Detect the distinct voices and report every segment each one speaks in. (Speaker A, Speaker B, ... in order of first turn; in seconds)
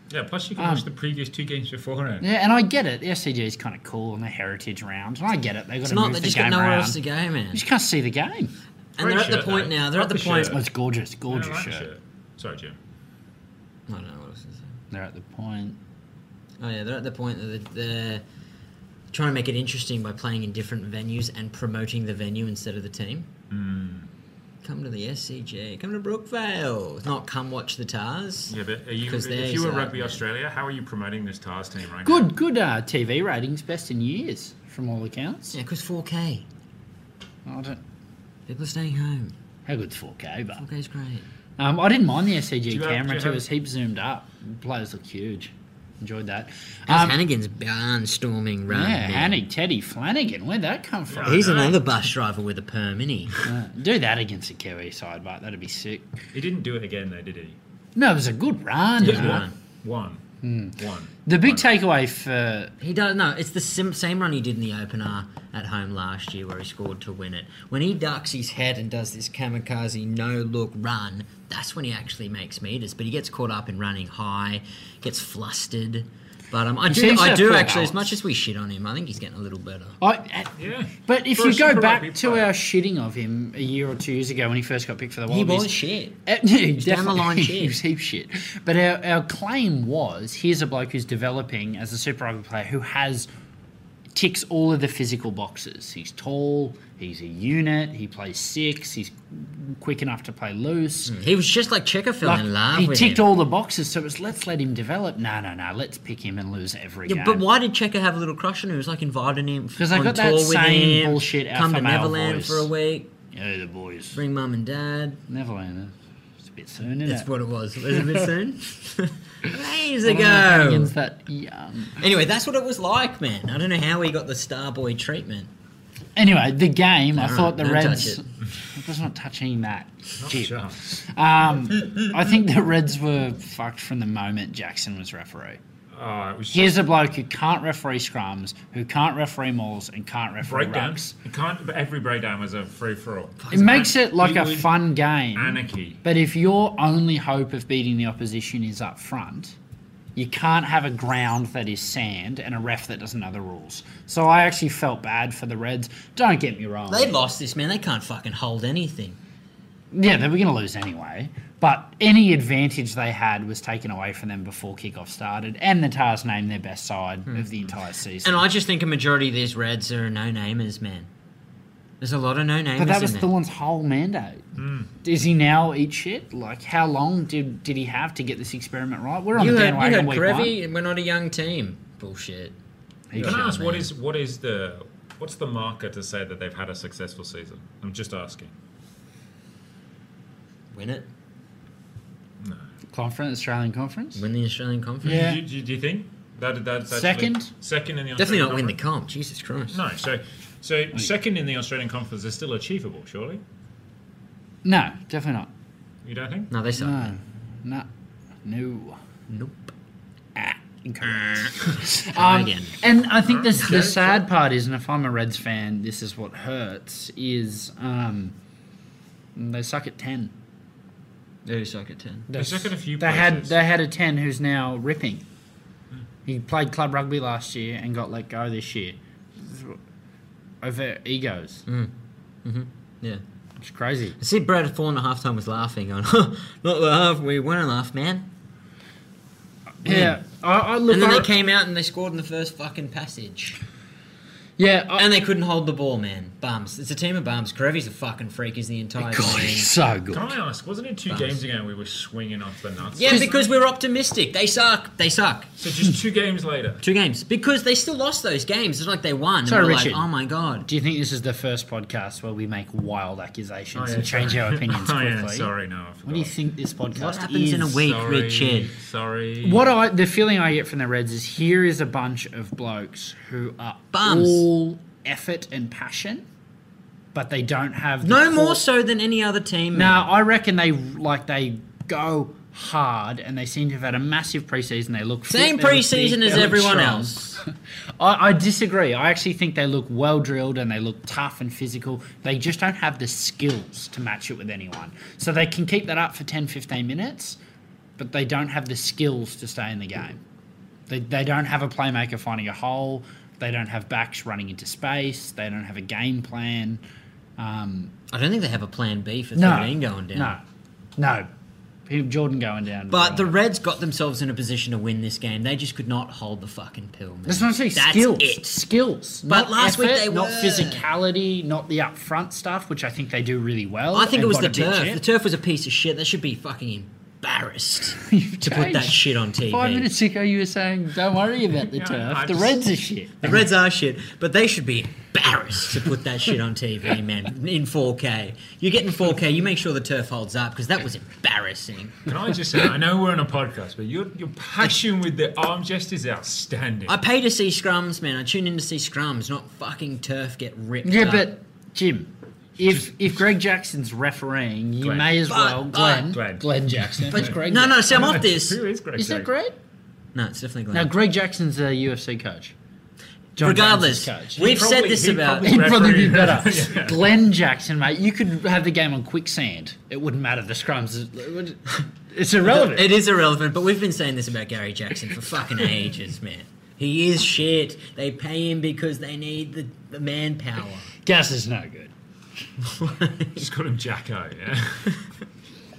Speaker A: 0.1-2.3, 9.0-10.6, 11.3-12.8, 23.5-24.1, 28.5-32.3, 42.7-43.4, 51.1-51.9, 56.3-57.6, 59.0-60.2, 60.8-61.7, 80.6-82.5, 130.2-130.8, 135.9-136.8, 140.4-144.8, 145.3-146.0, 174.6-174.9, 183.2-188.5, 195.0-198.8, 199.7-203.4, 206.0-206.5, 213.2-214.2, 222.3-223.6, 250.1-253.4, 255.6-256.8, 263.7-266.3, 267.8-269.6, 331.7-332.6, 342.1-347.0, 352.7-353.1, 354.8-355.1, 355.9-357.4, 357.9-359.3, 364.4-367.1, 383.4-385.0
Speaker B: 0.6-0.8, 2.2-7.0, 7.5-8.5, 10.4-11.9, 14.9-15.8, 32.0-35.6, 37.5-37.8, 39.6-40.6, 41.6-47.2, 48.7-51.6, 53.4-56.2, 57.9-59.4, 60.4-62.7, 76.9-78.1, 80.0-93.3, 94.1-101.2, 102.2-107.4, 109.8-112.7, 113.3-114.2, 115.3-117.3, 117.9-118.3, 120.0-122.0, 126.2-135.6, 136.5-141.1, 143.5-149.6, 150.2-157.2, 159.9-168.5, 172.8-174.4, 175.0-180.5, 183.1-183.5, 192.9-194.2, 195.0-195.4, 196.9-197.5, 204.6-205.5, 206.8-207.9, 208.4-209.0, 210.3-218.3, 219.3-220.3, 222.3-225.2, 226.2-229.8, 230.6-231.6, 233.6-234.2, 239.8-241.3, 244.6-245.1, 249.0-250.3, 253.1-253.3, 259.4-260.1, 260.6-265.5, 266.0-267.8, 269.4-276.2, 277.1-278.6, 279.7-297.4, 298.0-300.2, 300.9-306.8, 307.4-307.9, 309.3-310.4, 311.0-311.3, 311.9-313.3, 317.2-325.0, 328.0-333.4, 350.8-358.2, 358.9-359.6, 360.7-362.5, 363.4-364.5, 365.4-373.0, 381.0-381.9
Speaker C: 5.8-7.6, 9.0-10.6, 13.9-14.7, 16.6-18.2, 19.1-23.3, 24.6-28.5, 29.1-30.2, 35.5-36.5, 38.5-39.3, 40.6-41.2, 46.9-49.4, 51.2-53.3, 59.0-59.5, 62.8-80.0, 85.3-86.1, 86.8-87.8, 101.1-103.2, 107.0-113.1, 114.1-115.2, 117.0-120.9, 122.0-125.5, 127.1-128.2, 143.4-143.8, 156.9-159.2, 168.2-171.1, 172.0-173.3, 179.3-182.5, 183.1-183.9, 190.7-191.1, 194.1-195.3, 198.2-199.8, 206.5-207.1, 209.3-209.7, 211.8-212.8, 221.4-222.3, 231.7-231.9, 232.4-233.2, 234.2-238.3, 239.8-240.2, 240.9-243.6, 244.9-249.7, 251.1-251.4, 252.9-255.5, 256.8-260.7, 266.9-268.7, 273.9-274.4, 278.0-280.0, 285.3-287.4, 308.1-310.4, 312.9-318.6, 319.2-320.8, 323.9-329.9, 333.2-342.0, 346.9-351.3, 355.2-356.1, 357.1-358.6, 360.1-360.9, 363.4-365.8, 372.4-380.9, 382.6-383.4